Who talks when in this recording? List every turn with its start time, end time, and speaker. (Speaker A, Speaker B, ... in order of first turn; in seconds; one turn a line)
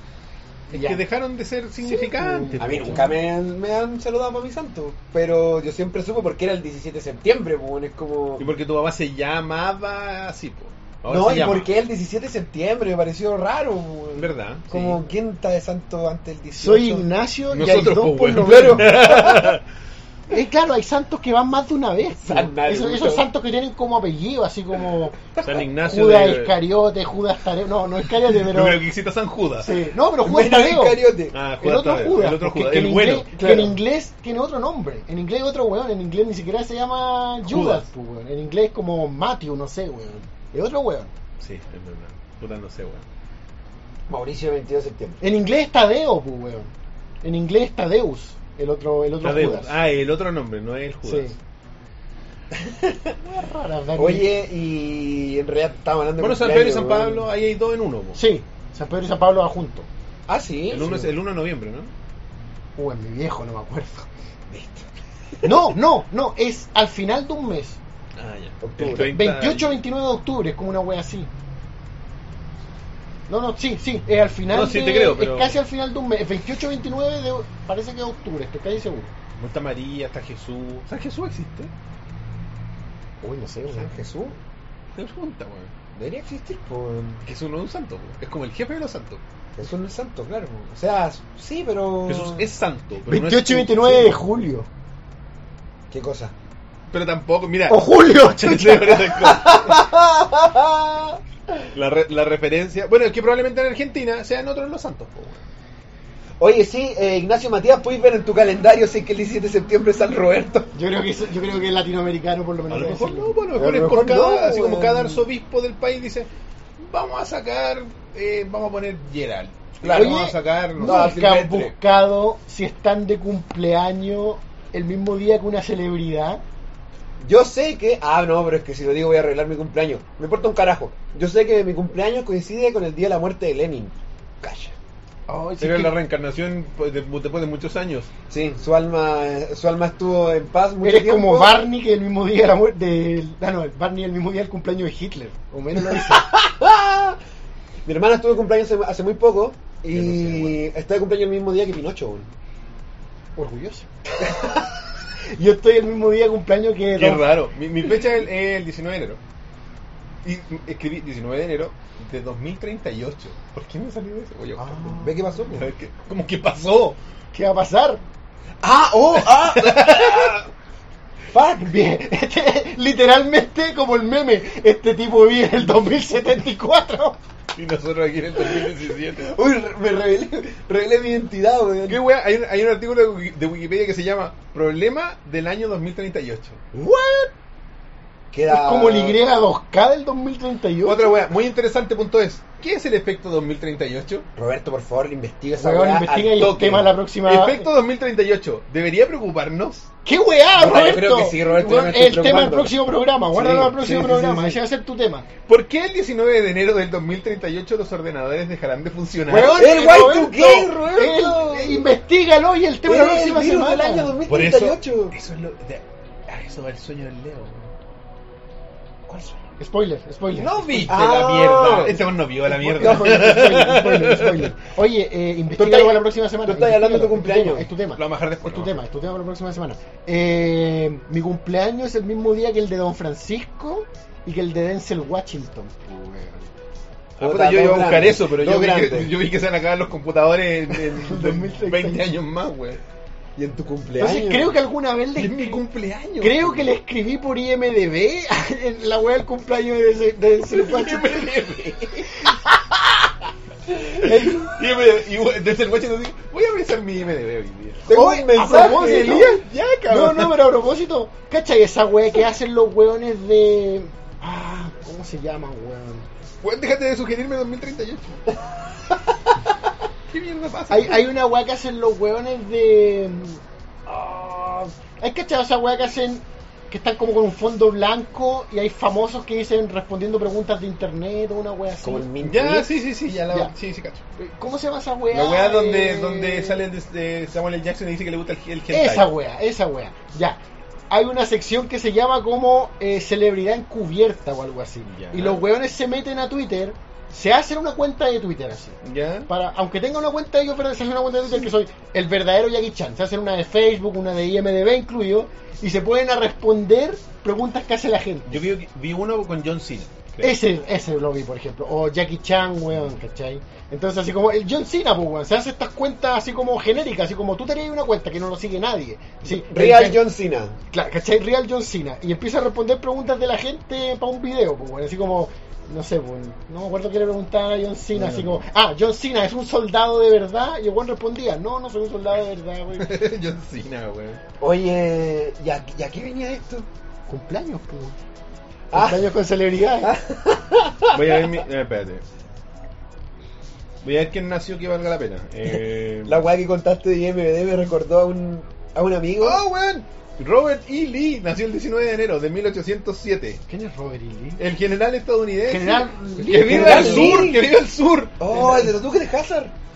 Speaker A: 0.7-1.0
Speaker B: 0.7-3.2
Speaker A: 1.8-3.1
Speaker C: 2.6-8.5
Speaker B: 8.4-11.7
Speaker C: 11.1-17.1
Speaker B: 14.2-15.1
Speaker A: 16.6-19.4
Speaker B: 17.5-19.6
Speaker C: 18.4-19.3
Speaker A: 20.3-28.8
Speaker C: 22.2-23.2
Speaker B: 25.4-26.6
Speaker B: 28.2-29.7
Speaker A: 29.6-41.1
Speaker C: 30.2-31.3
Speaker B: 31.3-33.6
Speaker C: 33.3-33.7
Speaker B: 37.4-37.9
Speaker B: 41.4-43.0
Speaker C: 44.1-45.2
Speaker A: 45.2-46.7
Speaker A: 47.2-49.8
Speaker B: 49.2-51.3
Speaker A: 51.0-51.4
Speaker C: 52.5-53.1
Speaker A: 53.2-54.3
Speaker C: 54.0-57.3
Speaker B: 56.2-58.2
Speaker A: 58.1-59.9
Speaker C: 60.3-61.1
Speaker B: 60.7-61.9
Speaker A: 62.8-64.1
Speaker C: 64.5-64.9
Speaker A: 65.5-67.8
Speaker B: 68.2-69.8
Speaker C: 68.6-69.1
Speaker A: 69.0-71.3
Speaker A: 73.3-79.1
Speaker B: 74.5-75.6
Speaker B: 79.4-81.7
Speaker A: 83.2-84.0
Speaker C: 83.8-84.4
Speaker B: 85.0-85.7
Speaker C: 85.9-87.2
Speaker B: 87.2-89.2
Speaker C: 89.6-92.5
Speaker B: 92.1-94.3
Speaker A: 93.1-94.7
Speaker C: 95.9-96.3
Speaker B: 96.9-99.8
Speaker A: 97.7-99.2
Speaker C: 99.3-101.2
Speaker B: 101.8-105.4
Speaker C: 106.4-110.7
Speaker A: 110.7-113.4
Speaker B: 112.7-116.3
Speaker C: 113.6-115.2
Speaker B: 116.8-121.6
Speaker C: 119.8-120.2
Speaker A: 119.9-126.4
Speaker C: 120.8-121.7
Speaker C: 127.2-134.7
Speaker A: 135.3-136.0
Speaker B: 135.6-138.1
Speaker C: 138.3-141.6
Speaker A: 140.8-146.3
Speaker C: 145.9-147.2
Speaker C: 147.9-152.3
Speaker B: 149.9-150.6
Speaker A: 153.4-153.9
Speaker A: 155.3-157.3
Speaker B: 156.9-159.2
Speaker B: 160.2-167.0
Speaker A: 164.7-165.1
Speaker C: 164.7-165.7
Speaker A: 167.3-168.0
Speaker C: 168.6-170.3
Speaker B: 169.1-170.4
Speaker C: 171.3-171.7
Speaker A: 171.5-177.2
Speaker B: 177.6-179.3
Speaker C: 178.4-178.7
Speaker C: 179.2-182.0
Speaker B: 181.9-186.6
Speaker A: 186.7-187.3
Speaker C: 188.3-189.2
Speaker A: 188.5-191.1
Speaker B: 190.8-194.3
Speaker C: 194.4-196.9
Speaker A: 195.6-197.7
Speaker B: 197.2-199.9
Speaker A: 200.0-205.3
Speaker C: 200.6-202.8
Speaker C: 203.3-204.6
Speaker B: 205.5-210.2
Speaker A: 209.3-214.2
Speaker C: 209.6-211.8
Speaker C: 212.9-215.2
Speaker B: 214.2-217.7
Speaker C: 219.1-219.4
Speaker A: 219.6-221.1
Speaker B: 220.3-224.5
Speaker C: 220.9-222.0
Speaker A: 222.5-236.5
Speaker C: 222.8-223.2
Speaker C: 225.6-227.7
Speaker B: 227.9-228.8
Speaker B: 237.2-242.8
Speaker C: 237.2-239.1
Speaker A: 240.9-242.1
Speaker C: 243.4-244.6
Speaker A: 244.0-245.6
Speaker B: 245.2-246.8
Speaker A: 246.2-251.3
Speaker B: 250.5-252.1
Speaker B: 254.1-260.4
Speaker C: 257.9-259.1
Speaker A: 257.9-266.1
Speaker B: 266.4-268.2
Speaker B: 270.1-271.1
Speaker A: 270.7-282.1
Speaker C: 281.8-282.7
Speaker B: 282.2-284.0
Speaker A: 284.2-286.6
Speaker B: 285.1-289.1
Speaker A: 288.7-290.4
Speaker A: 290.9-308.4
Speaker B: 294.9-295.5
Speaker B: 298.8-299.3
Speaker B: 301.2-301.5
Speaker B: 308.3-310.4
Speaker A: 310.2-320.1
Speaker C: 319.2-320.6
Speaker A: 320.7-332.9
Speaker B: 327.9-328.5
Speaker B: 332.8-334.2
Speaker C: 334.4-336.7
Speaker A: 337.1-338.0
Speaker C: 338.7-339.1
Speaker A: 338.7-339.9
Speaker C: 339.8-341.0
Speaker B: 340.9-342.0
Speaker B: 343.8-346.3
Speaker C: 345.5-349.4
Speaker B: 349.2-353.4
Speaker A: 353.5-354.4
Speaker B: 354.4-358.7
Speaker A: 355.5-357.4
Speaker C: 356.5-357.4
Speaker C: 358.2-359.5